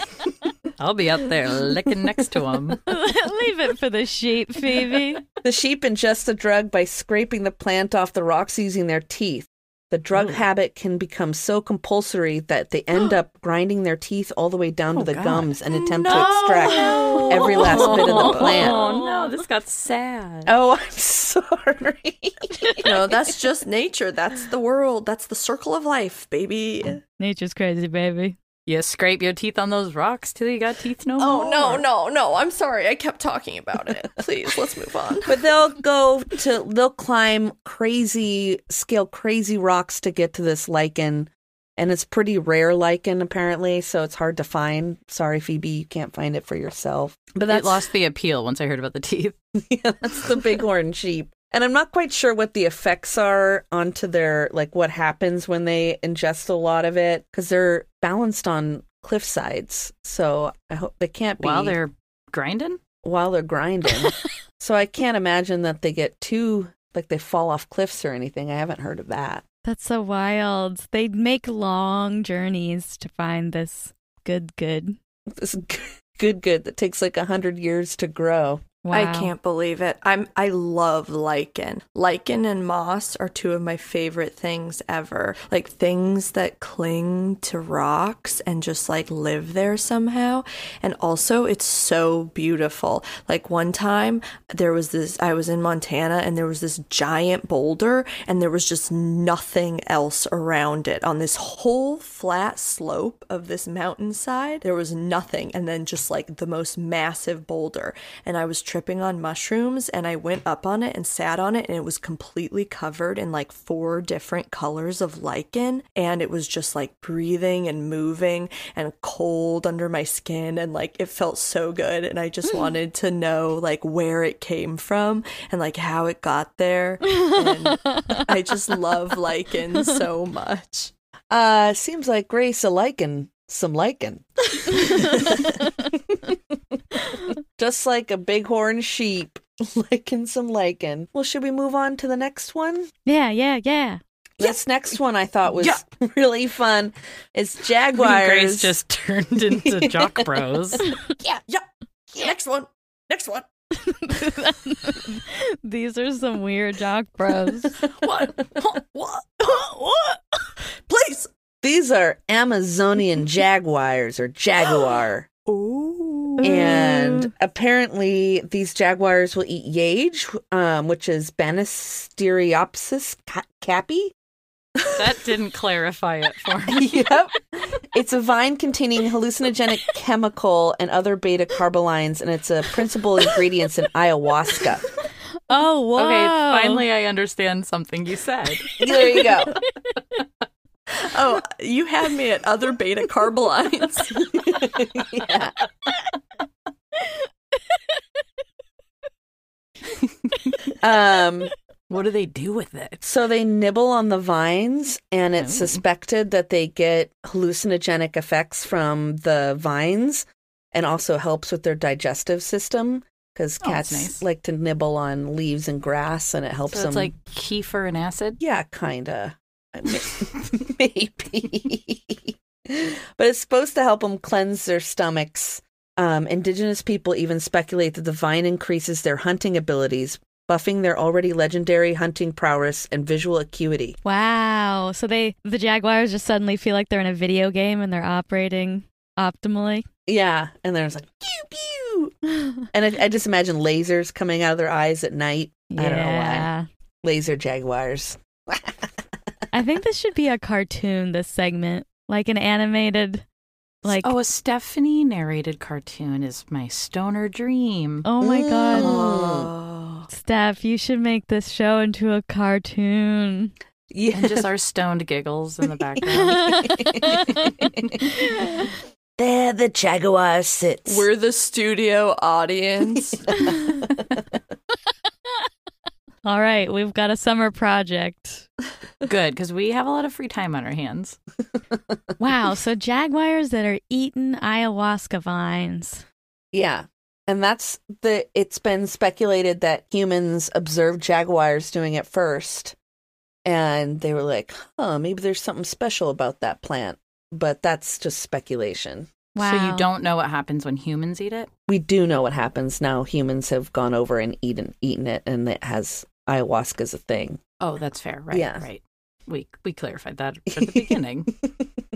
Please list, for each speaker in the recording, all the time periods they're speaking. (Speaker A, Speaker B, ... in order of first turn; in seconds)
Speaker A: 0.8-2.8, 10.1-10.4, 14.9-15.5, 16.6-20.5, 28.7-31.9, 47.4-49.4, 61.4-62.8, 147.9-150.9, 158.0-158.8, 174.9-177.2, 186.0-188.7, 201.9-203.0, 205.4-205.8, 213.6-214.3, 216.7-218.4, 253.9-258.1, 264.1-266.5, 279.0-281.2, 299.4-301.5, 307.6-311.3
Speaker B: 2.9-5.2, 16.1-19.4, 27.2-28.4, 69.6-75.0, 78.8-79.3, 127.2-128.2, 134.8-135.4, 143.1-144.0, 153.8-157.9, 166.4-167.3, 185.5-186.8, 188.8-189.5, 234.0-239.9, 245.7-246.7, 249.5-253.2, 253.8-254.1, 258.1-258.9, 260.1-263.5, 266.0-268.7, 273.4-273.8, 276.2-278.5, 282.2-286.0, 299.3-299.9
Speaker C: 5.4-18.8, 20.5-23.4, 35.3-47.8, 49.5-61.8, 63.0-69.4, 75.3-78.6, 131.3-136.8, 137.6-142.9, 144.4-148.8, 149.6-150.3, 161.6-165.3, 166.4-174.1, 176.7-184.8, 188.8-189.5, 194.3-195.5, 200.8-201.5, 203.0-217.1, 218.4-234.0, 240.1-242.2, 242.7-246.5, 247.0-249.0, 258.2-259.5, 263.9-264.5, 266.2-268.1, 269.2-271.1, 286.5-292.8, 293.4-299.1, 301.7-307.4, 308.3-308.6, 310.5-311.7
Speaker D: 15.7-18.6, 22.8-27.0, 31.2-35.4, 78.9-130.9, 152.2-153.5, 160.9-161.3, 165.5-166.9, 191.0-194.2, 258.7-260.1, 270.9-273.3